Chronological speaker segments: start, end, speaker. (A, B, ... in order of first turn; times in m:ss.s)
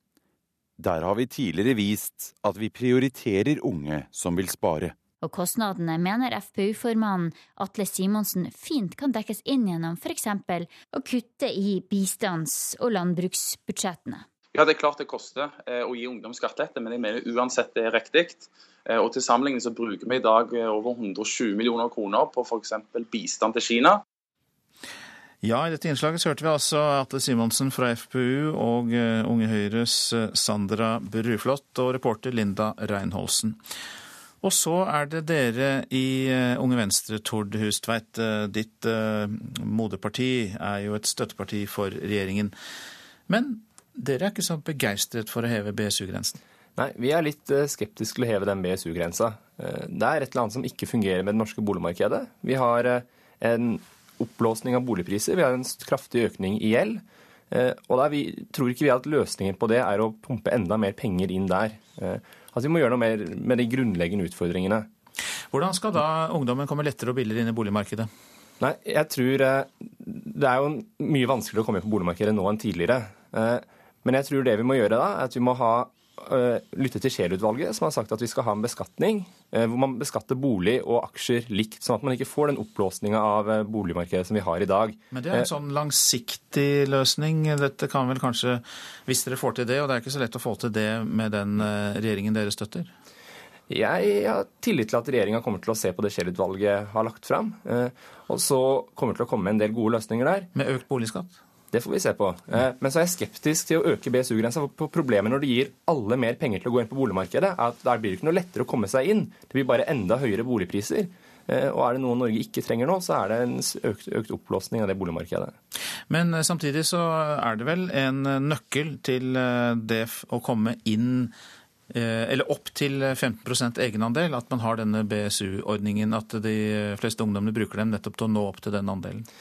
0:00.8-0:05.0 A
0:05.2-0:14.3 B
0:14.5-0:24.0 C
0:25.4-0:33.6 D
0:34.4-0:42.5 D
0:43.3-0:46.4 D
0:46.8-1:04.9 E
1:05.5-1:08.1 D
1:08.6-1:25.5 E
1:25.1-1:32.9 D
1:33.7-1:40.5 E
1:40.5-1:41.4 D
1:41.7-1:55.6 E
1:56.1-2:01.3 D
2:01.9-2:09.3 D